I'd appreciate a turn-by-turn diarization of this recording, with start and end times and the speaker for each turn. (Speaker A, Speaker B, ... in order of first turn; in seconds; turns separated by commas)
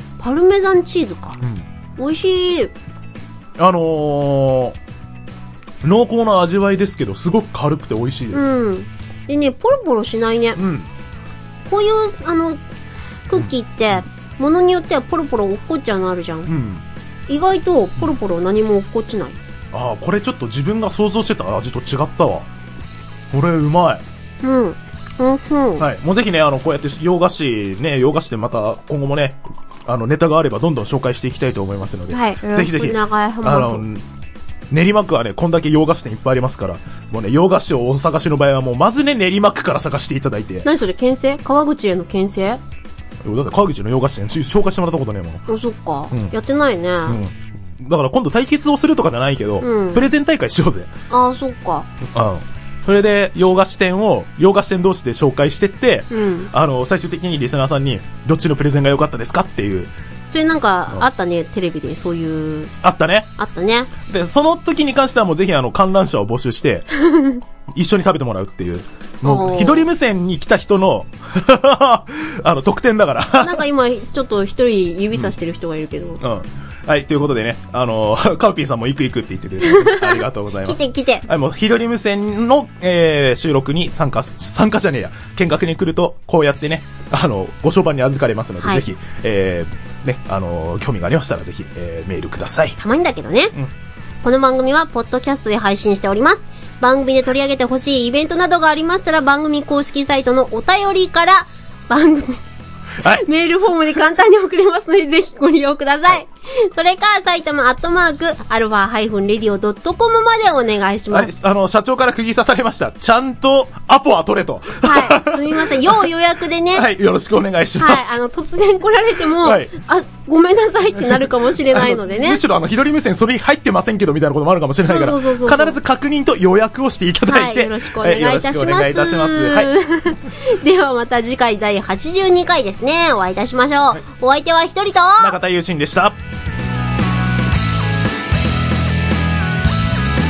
Speaker A: 0.2-1.4, Speaker B: 1.4-1.6, Speaker A: 2.0-2.7, Speaker B: 3.6-4.8, Speaker B: 5.8-8.6, Speaker A: 8.3-10.6, Speaker B: 10.6-10.9, Speaker A: 11.7-12.6, Speaker A: 13.3-16.5, Speaker B: 16.5-16.8, Speaker A: 17.3-19.4, Speaker B: 19.7-22.5, Speaker B: 23.3-24.0, Speaker A: 24.4-25.9, Speaker B: 25.8-34.0, Speaker A: 32.1-33.8, Speaker B: 34.7-40.7, Speaker A: 40.6-42.6, Speaker B: 43.2-45.5, Speaker A: 45.5-47.2, Speaker B: 46.1-46.4, Speaker B: 47.0-50.9, Speaker A: 49.6-50.1, Speaker A: 51.1-51.9, Speaker B: 52.0-59.9, Speaker A: 56.1-56.5, Speaker A: 60.3-62.7, Speaker B: 62.8-63.3, Speaker A: 63.4-63.9, Speaker B: 64.1-66.9, Speaker A: 67.0-67.4, Speaker B: 67.7-73.6, Speaker A: 69.2-69.9, Speaker A: 73.4-76.2, Speaker B: 76.2-92.8, Speaker A: 79.6-81.2, Speaker A: 88.6-88.8, Speaker A: 92.8-93.5, Speaker A: 94.2-102.4, Speaker B: 103.0-103.2, Speaker A: 103.0-111.3, Speaker B: 111.1-116.1, Speaker A: 114.8-116.9, Speaker B: 116.7-118.2, Speaker A: 117.8-122.4, Speaker B: 119.3-119.7, Speaker B: 121.1-129.7, Speaker A: 124.8-125.8, Speaker A: 127.2-135.3, Speaker B: 135.2-136.2